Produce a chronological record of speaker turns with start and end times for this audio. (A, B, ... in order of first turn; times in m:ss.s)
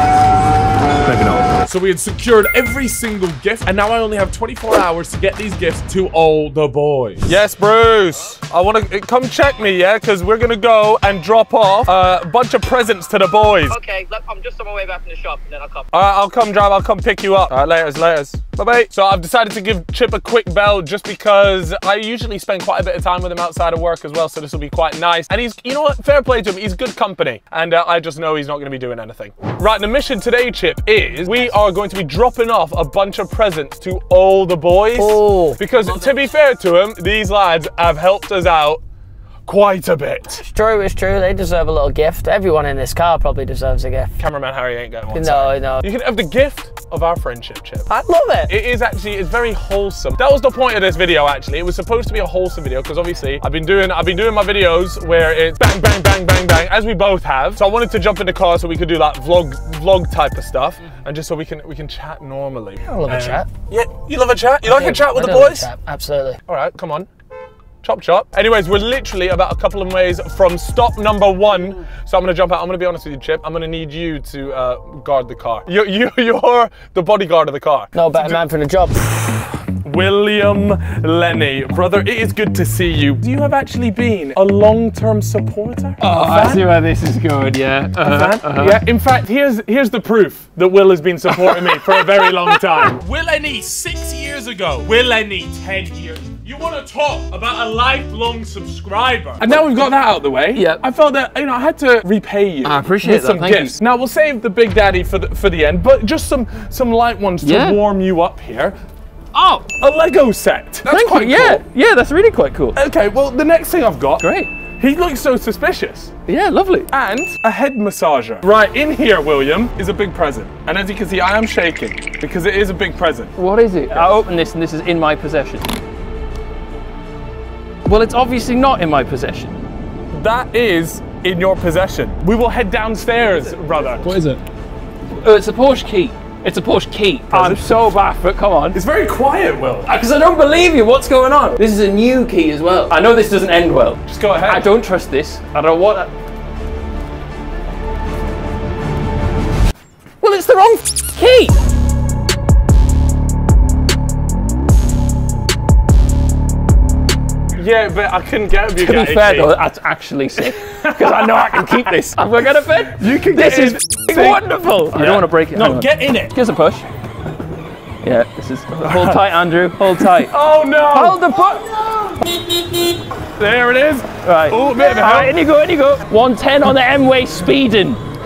0:01.0-0:13.8 A
0:13.7-0:15.9 B
0:15.9-0:38.8 A
0:35.0-0:35.6 B
0:39.4-0:40.4 A
0:40.3-0:44.1 B
0:44.2-0:47.9 A
0:45.1-0:45.9 B
0:47.9-0:48.5 B
0:48.5-1:05.7 A
1:02.8-1:03.5 B
1:04.6-1:06.4 B
1:06.5-1:07.1 A
1:07.8-1:18.4 A
1:17.9-1:19.2 B
1:19.3-1:26.7 A
1:26.0-1:28.8 C
1:28.0-1:48.8 A
1:31.3-1:32.3 C
1:42.6-1:43.7 C
1:47.4-1:47.8 C
1:49.3-1:49.6 C
1:49.6-1:51.6 A
1:50.8-1:52.8 C
1:52.7-1:56.1 A
1:54.2-1:54.5 C
1:56.3-1:56.9 C
1:56.9-2:03.3 A
2:03.4-2:05.6 C
2:03.9-2:04.2 A
2:07.9-2:09.6 C
2:10.1-2:14.1 A
2:14.1-2:14.4 C
2:15.1-2:18.8 C
2:17.3-2:17.6 A
2:18.7-2:19.9 A
2:19.9-2:26.1 C
2:22.6-2:22.8 B
2:24.0-2:24.7 A
2:30.2-2:31.5 C
2:37.6-2:39.6 A
2:38.8-2:46.9 C
2:40.4-2:41.8 A
2:42.9-2:46.3 A
2:48.0-2:50.3 C
2:48.8-2:49.2 A
2:50.1-2:51.4 A
2:50.9-2:51.6 C
2:53.3-2:55.4 A
2:54.2-2:58.0 C